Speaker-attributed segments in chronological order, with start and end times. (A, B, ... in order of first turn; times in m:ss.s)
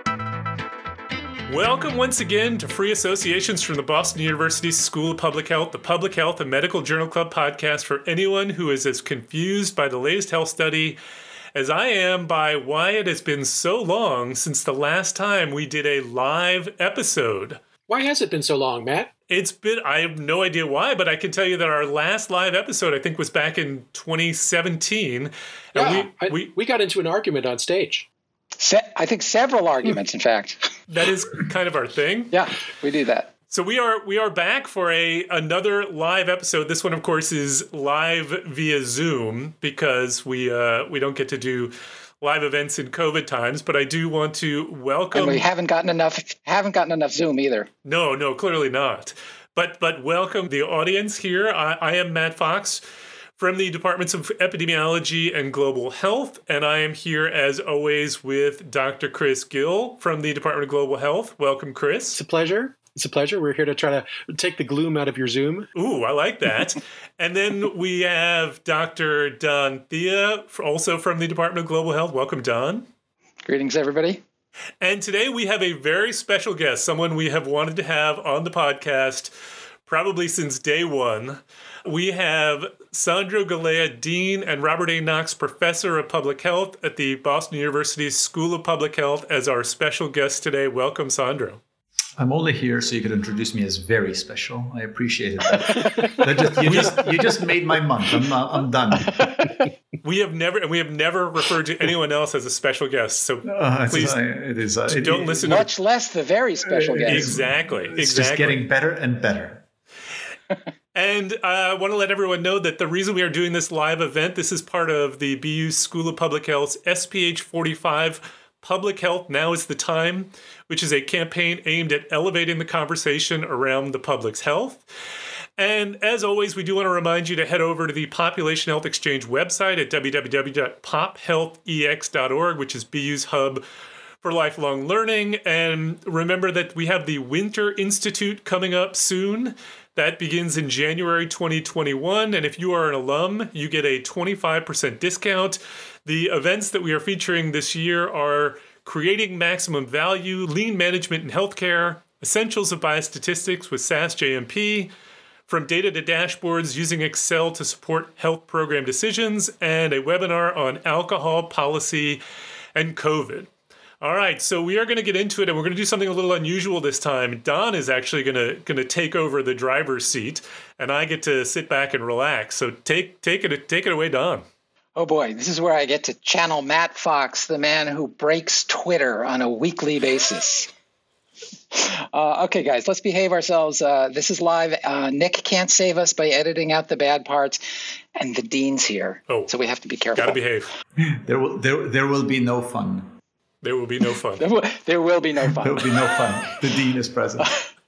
0:01.5-0:11.0 A
0:11.5-0:17.6 A
0:17.9-0:19.1 B
0:19.3-0:26.5 A
0:25.7-0:28.1 B
0:28.6-0:30.7 C
0:30.9-0:32.4 A
0:32.3-0:33.3 C
0:33.5-0:45.5 A
0:45.1-0:47.7 C
0:47.8-0:52.8 A
0:53.4-1:02.2 A
1:02.1-1:05.7 B
1:05.7-1:12.9 A
1:13.4-1:14.2 C
1:14.8-1:19.3 A
1:19.8-1:31.6 A
1:32.2-1:39.3 D
1:36.6-1:37.2 A
1:40.0-1:44.2 A
1:43.4-1:45.7 D
1:44.9-1:45.7 A
1:45.5-1:47.3 C
1:46.7-1:49.6 D
1:47.0-1:48.6 A
1:50.9-2:04.8 A
2:05.6-2:13.6 A
2:14.2-2:34.9 A
2:35.5-2:42.2 A
2:42.7-2:43.5 A
2:44.0-2:54.4 A
2:55.0-3:00.7 C
3:01.7-3:07.6 C
3:08.1-3:10.4 C
3:10.2-3:10.7 A
3:11.0-3:13.2 D
3:13.6-3:14.4 A
3:14.4-3:16.0 C
3:15.6-3:17.5 D